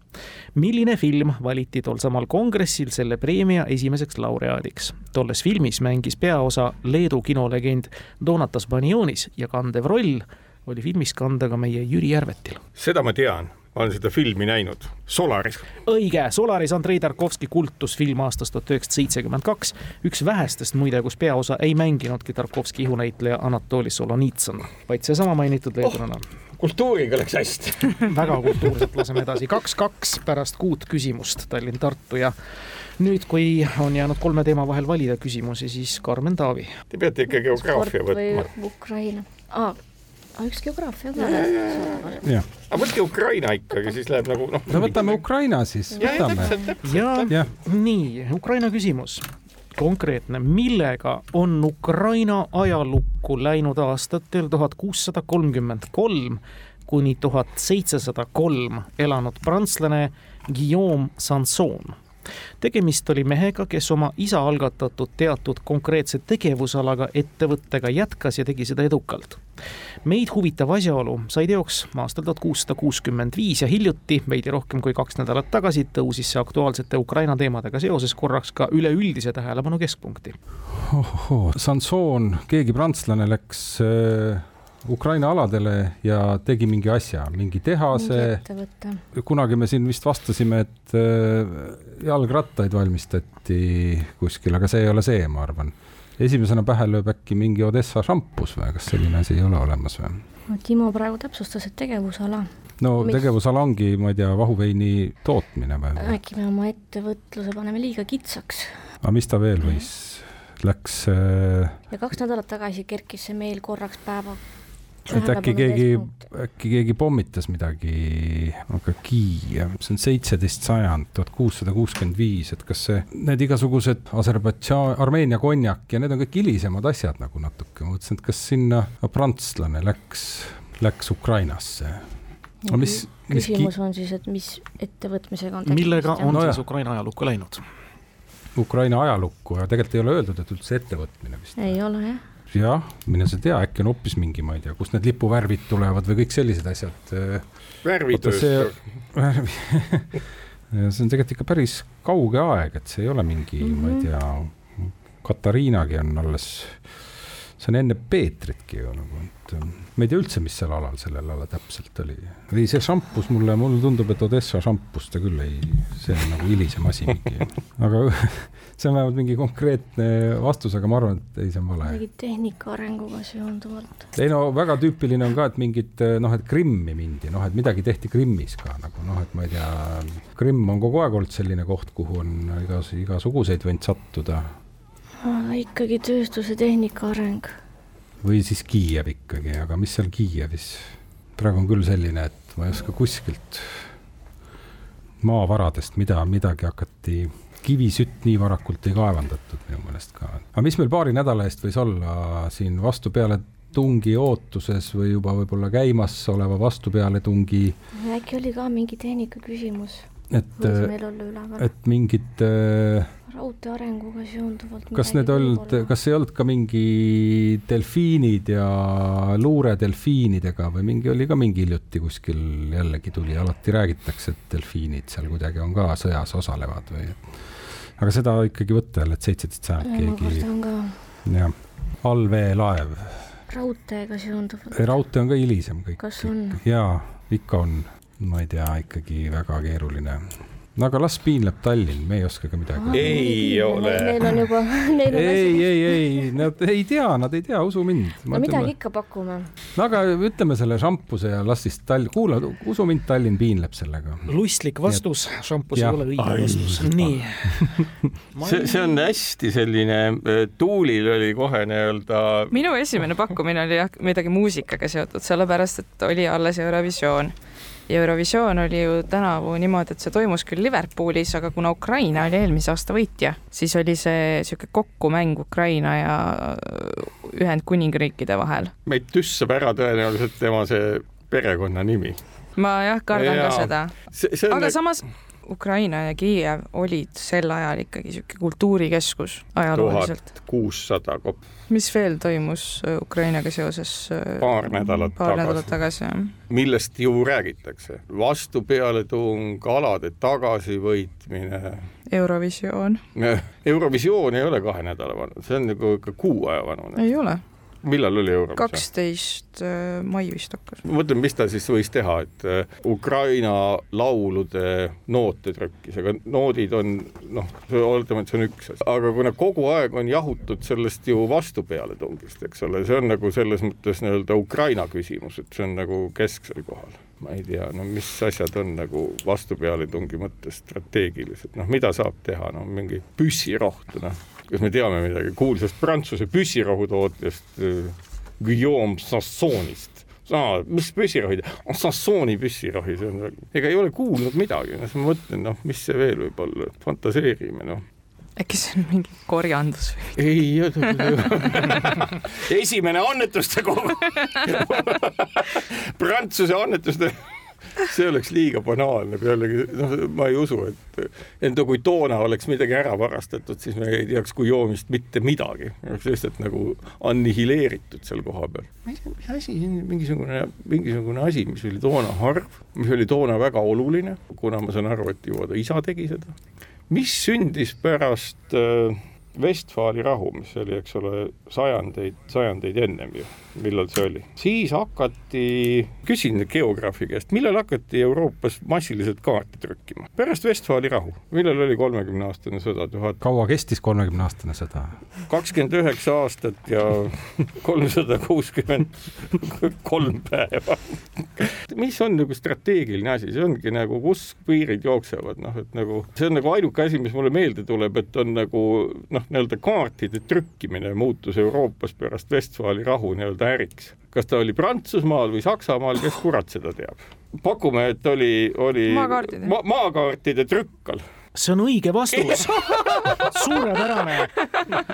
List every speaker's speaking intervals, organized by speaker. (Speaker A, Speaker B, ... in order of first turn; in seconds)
Speaker A: 0.6-12.6, 15.9-26.2, 28.0-32.3, 33.0-36.7, 46.9-62.0, 62.6-69.4, 70.0-80.4, 135.7-137.7, 254.3-259.0, 421.4-424.5
Speaker B: 12.8-15.7, 26.6-28.7, 36.9-38.5, 41.2-45.2, 46.0-47.3, 147.8-148.8, 242.9-244.4, 258.4-262.6, 278.9-282.2, 283.1-284.8, 289.8-291.4, 294.4-295.7, 296.5-301.9, 303.2-307.0, 307.8-308.8, 310.9-347.8, 350.2-357.2, 357.8-376.4, 376.9-393.2, 395.3-421.1, 422.1-423.4
Speaker C: 37.5-39.8, 40.4-42.2, 46.2-46.6, 87.9-89.0, 100.5-102.5, 103.0-103.3, 106.0-108.7, 111.9-114.4, 115.1-116.2, 132.7-136.3, 141.6-142.2, 171.8-174.1, 185.2-187.5, 208.0-210.0, 210.6-211.7, 213.3-215.9, 229.8-230.9, 233.5-234.8, 236.0-236.6, 242.8-246.0, 248.3-249.5
Speaker D: 44.7-46.5, 80.7-88.4, 89.1-100.2, 102.8-106.2, 109.0-111.8, 115.1-132.1, 132.7-133.7, 136.3-136.6, 138.6-141.8, 142.5-147.4, 148.1-150.1, 150.7-156.8, 157.6-172.0, 174.2-184.5, 188.2-193.8, 195.2-207.8, 210.3-210.9, 211.6-213.1, 214.9-227.2, 228.0-230.5, 231.2-233.3, 234.7-243.2, 245.1-248.7, 249.8-254.3, 255.8-257.8, 393.2-395.0
Speaker E: 262.5-267.4, 267.9-278.7, 282.6-283.9, 284.5-290.2, 291.7-296.3, 302.1-303.0, 307.0-307.4, 308.6-310.8, 348.4-350.2, 418.9-419.5